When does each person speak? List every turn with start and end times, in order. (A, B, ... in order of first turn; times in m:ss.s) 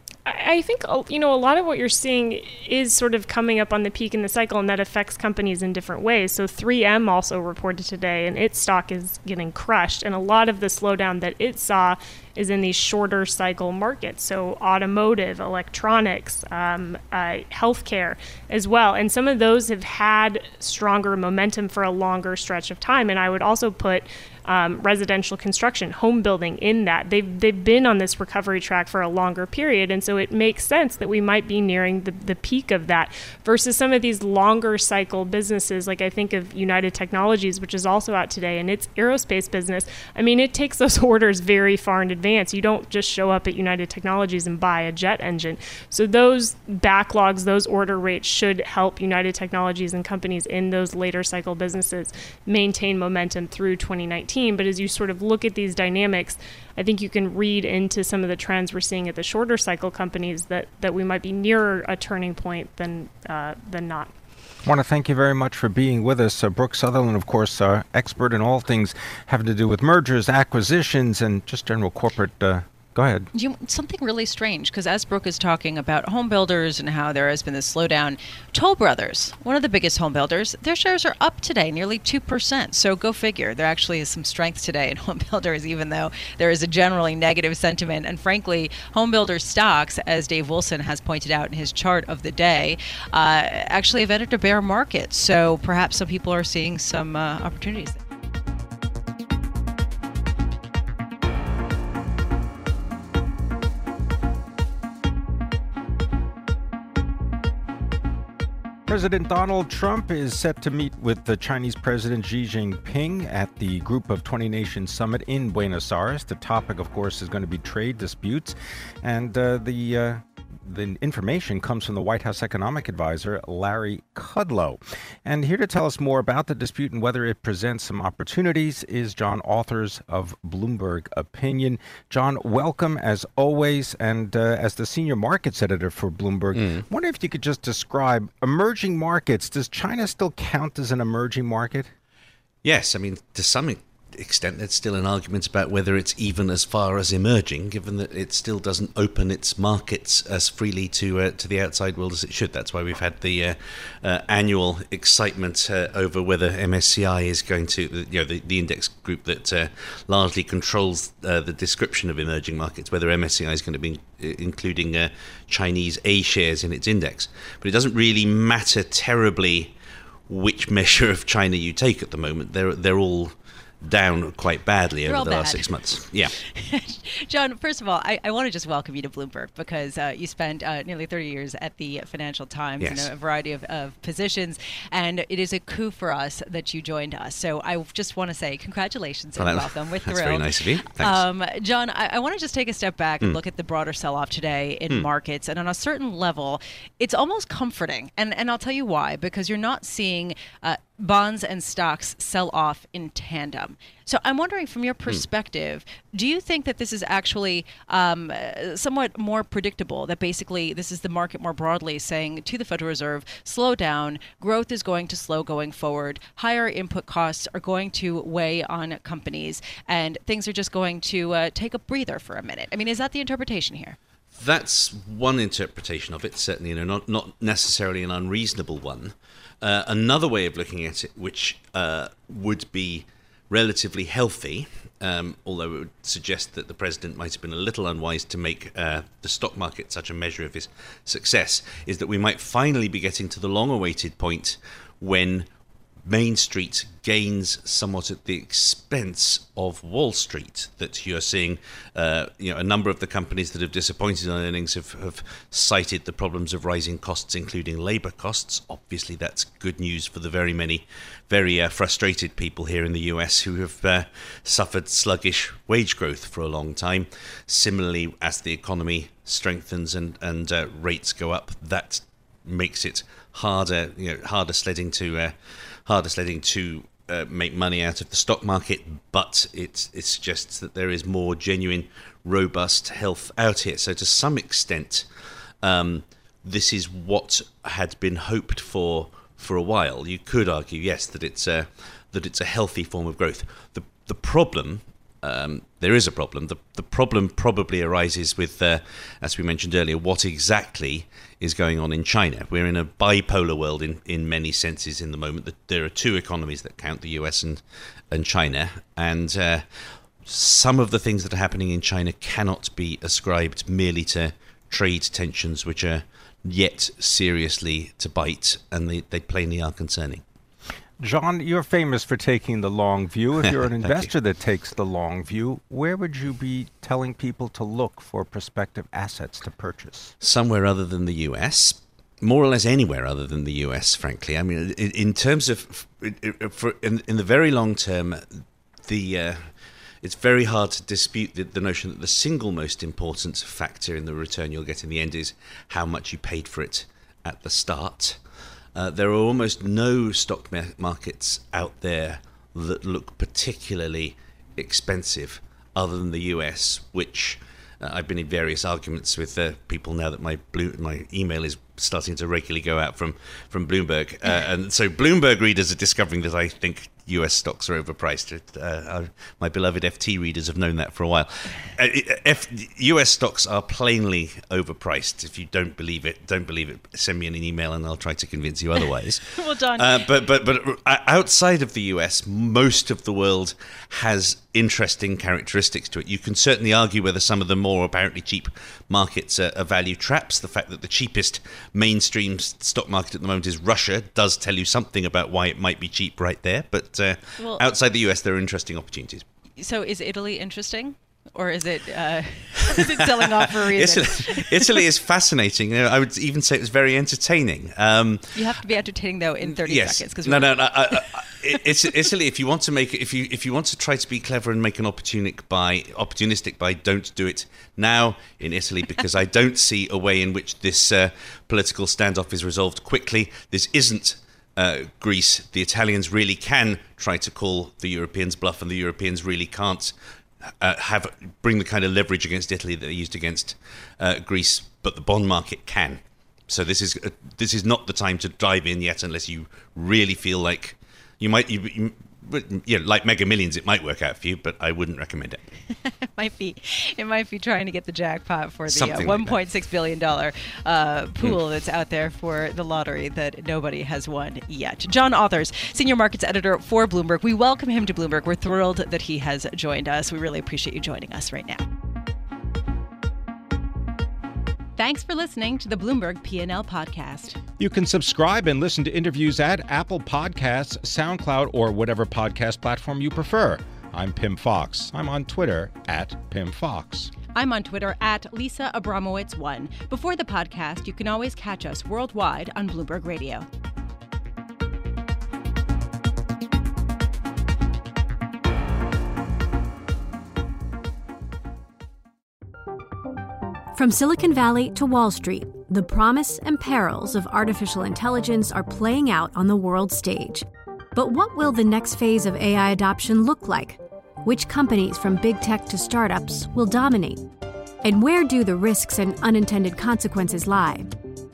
0:00.3-1:04.1 A
1:04.6-1:13.3 B
1:13.3-1:38.0 C
1:48.9-2:21.9 B
2:16.5-2:16.8 D
2:22.6-2:49.8 D
2:50.3-2:56.4 D
2:55.0-3:44.0 C
3:02.8-3:03.1 D
3:09.4-3:11.2 D
3:44.4-4:05.5 D
4:06.0-4:45.1 D
4:45.6-5:20.2 D
5:21.0-5:30.1 B
5:23.8-5:24.1 D
5:30.2-5:39.5 D
5:40.0-5:48.2 D
5:48.8-6:39.2 D
6:19.3-6:20.1 C
6:37.4-6:37.6 C
6:39.6-6:44.9 C
6:42.7-6:48.5 D
6:48.3-6:51.3 C
6:49.4-7:09.9 D
7:10.6-7:25.4 D
7:25.8-7:41.6 C
7:28.7-7:29.4 D
7:44.8-7:47.4 C
7:47.6-7:57.1 B
7:57.3-8:03.5 C
8:13.7-8:27.2 E
8:27.8-8:30.9 E